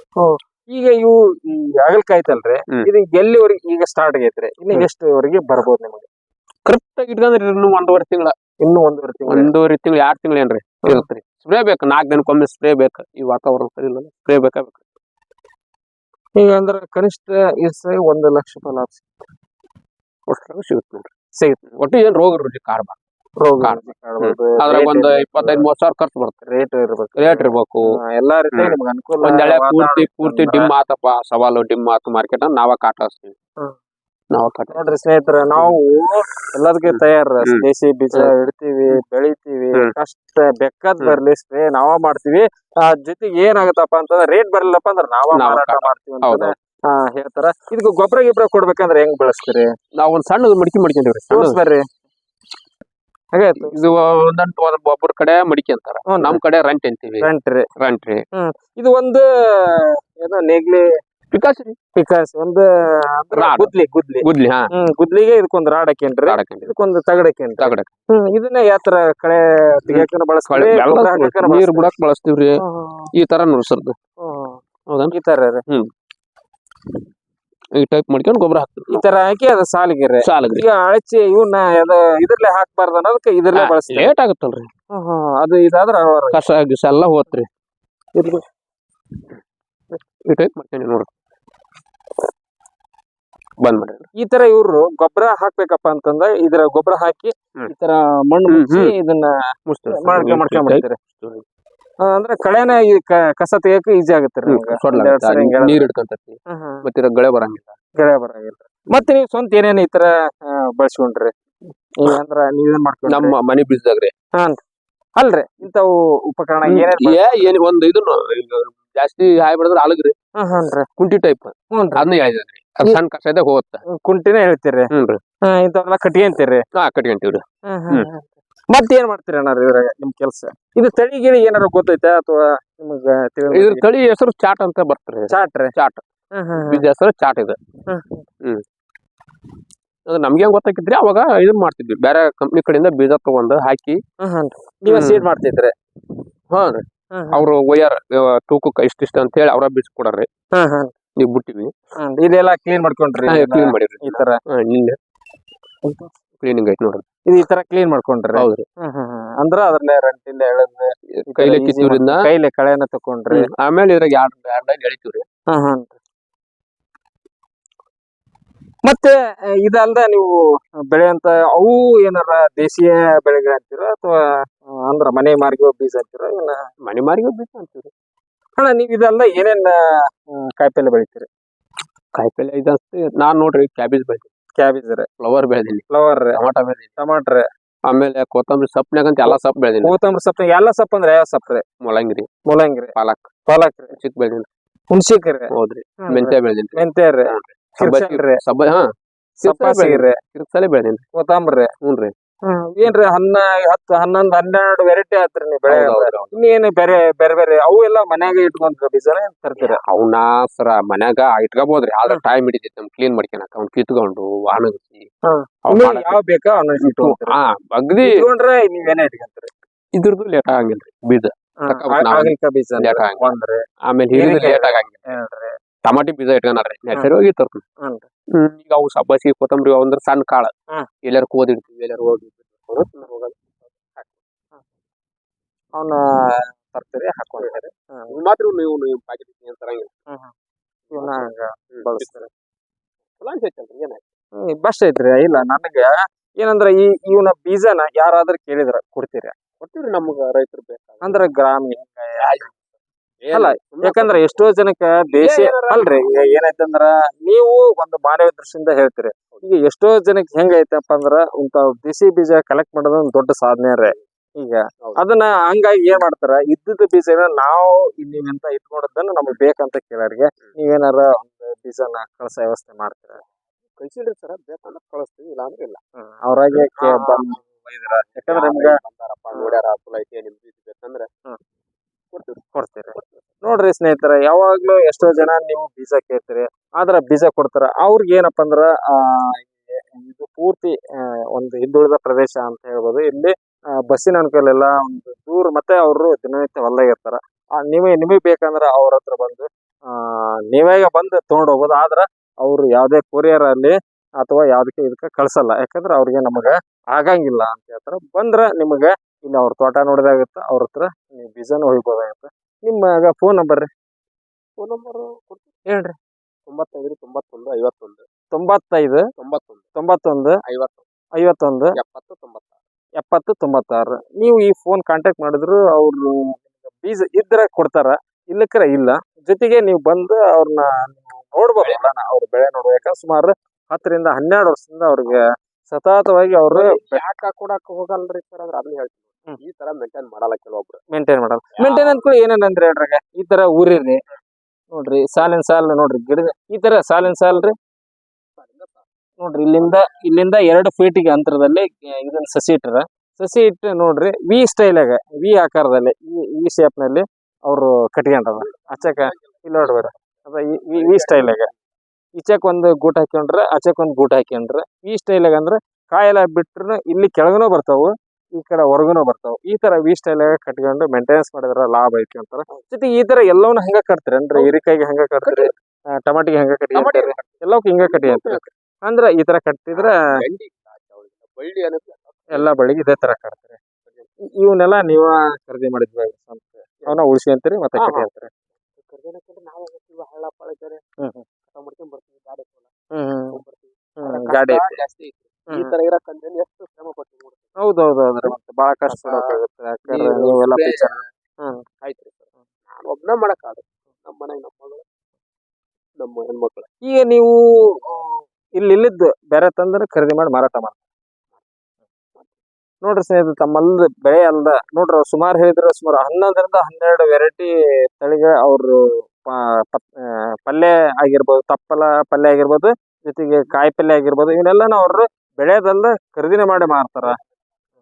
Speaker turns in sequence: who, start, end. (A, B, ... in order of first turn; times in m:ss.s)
0:00.2-0:06.1 A
0:06.7-0:08.4 B
0:08.6-0:09.5 A
0:09.3-0:14.8 B
0:16.4-0:19.0 A
0:20.3-0:21.1 B
0:21.4-0:21.6 A
0:21.8-0:23.0 B
0:23.4-0:25.7 A
0:23.6-0:26.4 B
0:26.5-0:30.7 A
0:27.2-0:27.9 B
0:28.5-0:33.4 B
0:34.3-0:34.9 B
0:34.7-0:49.7 A
0:36.9-0:38.3 B
0:45.3-0:46.5 B
0:50.0-0:51.6 B
0:51.3-0:51.9 A
0:53.3-0:53.8 A
0:53.6-0:58.2 B
0:56.1-0:56.4 A
0:57.2-0:57.7 A
0:58.3-1:00.9 A
1:01.3-1:01.8 B
1:02.0-1:11.9 A
1:03.3-1:04.7 B
1:06.3-1:06.7 B
1:07.6-1:07.9 B
1:09.9-1:12.6 B
1:12.6-1:13.1 A
1:13.1-1:14.0 B
1:14.2-1:14.6 A
1:14.9-1:15.2 B
1:15.1-1:15.6 A
1:17.8-1:19.0 B
1:18.9-1:24.2 A
1:20.2-1:20.6 B
1:23.5-1:24.7 B
1:24.9-1:26.4 A
1:26.3-1:27.5 B
1:28.2-1:28.4 A
1:30.3-1:31.1 B
1:33.6-1:34.1 B
1:34.2-1:39.4 A
1:38.5-1:38.9 B
1:39.7-1:41.4 B
1:39.9-1:41.0 A
1:42.1-1:45.9 A
1:44.5-1:47.8 B
1:46.5-1:46.8 A
1:48.0-1:51.3 A
1:52.0-1:53.3 A
1:53.1-1:54.1 B
1:55.2-1:57.5 A
1:56.7-2:00.1 B
2:00.4-2:00.9 A
2:01.0-2:03.8 B
2:01.7-2:02.0 A
2:04.0-2:04.9 A
2:04.9-2:05.2 B
2:05.5-2:06.6 A
2:06.8-2:08.1 B
2:07.7-2:13.9 A
2:13.5-2:16.0 B
2:15.3-2:15.7 A
2:16.4-2:16.8 A
2:16.6-2:17.6 B
2:17.9-2:18.2 A
2:20.1-2:24.0 B
2:24.2-2:25.7 A
2:24.9-2:25.2 B
2:26.5-2:30.3 B
2:27.1-2:27.4 A
2:30.6-2:30.9 A
2:31.2-2:31.7 B
2:32.0-2:34.4 A
2:33.3-2:35.0 B
2:36.4-2:37.1 B
2:37.3-2:43.5 A
2:38.4-2:38.6 B
2:41.2-2:42.2 B
2:43.3-2:45.2 B
2:45.5-2:46.0 A
2:48.8-2:50.3 A
2:50.9-2:54.2 A
2:54.8-2:56.6 A
2:56.8-2:57.9 B
2:58.6-3:01.3 A
3:02.2-3:04.3 B
3:04.6-3:05.1 A
3:05.2-3:06.9 B
3:05.9-3:06.4 A
3:07.0-3:07.4 A
3:07.9-3:09.9 B
3:09.3-3:11.6 A
3:11.8-3:12.3 B
3:12.5-3:12.9 A
3:13.0-3:13.3 B
3:13.5-3:14.0 A
3:14.0-3:14.5 B
3:14.9-3:15.5 A
3:15.5-3:18.9 B
3:16.0-3:18.4 A
3:19.4-3:21.0 B
3:19.4-3:20.2 A
3:21.2-3:21.7 A
3:21.8-3:22.1 B
3:22.5-3:29.8 A
3:25.7-3:26.5 B
3:29.6-3:35.1 B
3:35.2-3:37.4 A
3:35.7-3:36.2 B
3:36.8-3:38.2 B
3:38.0-3:39.5 A
3:40.0-3:43.3 B
3:41.6-3:43.6 A
3:43.9-3:45.1 B
3:44.1-3:45.5 A
3:45.8-3:47.6 B
3:48.4-3:50.5 B
3:51.0-3:54.1 B
3:55.8-3:58.2 A
3:58.1-3:59.9 B
4:00.9-4:02.1 B
4:00.9-4:02.3 A
4:03.2-4:04.0 B
4:04.5-4:09.4 A
4:09.6-4:11.2 B
4:11.0-4:12.5 A
4:12.2-4:12.6 B
4:13.2-4:14.5 B
4:13.3-4:33.2 A
4:15.1-4:16.5 B
4:33.8-4:35.8 B
4:36.0-4:38.8 A
4:36.6-4:37.4 B
4:38.1-4:41.1 B
4:39.3-4:39.6 A
4:42.1-4:42.4 B
4:42.6-4:53.3 A
4:53.9-5:13.7 A
5:14.6-5:15.5 B
5:15.7-5:16.0 A
5:16.5-5:18.0 B
5:18.3-5:19.0 A
5:19.2-5:19.6 B
5:19.8-5:20.4 A
5:20.4-5:20.8 B
5:21.2-5:21.8 A
5:21.8-5:22.6 B
5:23.0-5:37.0 A
5:31.6-5:31.9 B
5:36.5-5:40.8 B
5:40.9-5:44.0 A
5:41.6-5:42.0 B
5:44.7-5:47.5 A
5:48.4-5:48.8 B
5:49.2-6:01.5 A
5:49.6-5:49.9 B
5:58.4-6:00.0 B
6:00.7-6:01.5 B
6:02.2-6:15.5 A
6:15.2-6:15.6 B
6:16.0-6:20.0 A
6:16.8-6:18.4 B
6:19.7-6:22.5 B
6:22.3-6:23.6 A
6:24.4-6:28.3 A
6:27.8-6:28.1 B
6:28.6-6:30.8 B
6:31.0-6:31.2 A
6:31.5-6:32.7 B
6:32.9-6:33.4 A
6:33.3-6:37.5 B
6:34.0-6:34.8 A
6:37.6-6:41.6 A
6:38.9-6:41.1 B
6:41.8-6:44.8 B
6:46.0-6:46.7 B
6:46.8-6:50.8 A
6:52.8-6:59.9 A
7:00.5-7:07.2 A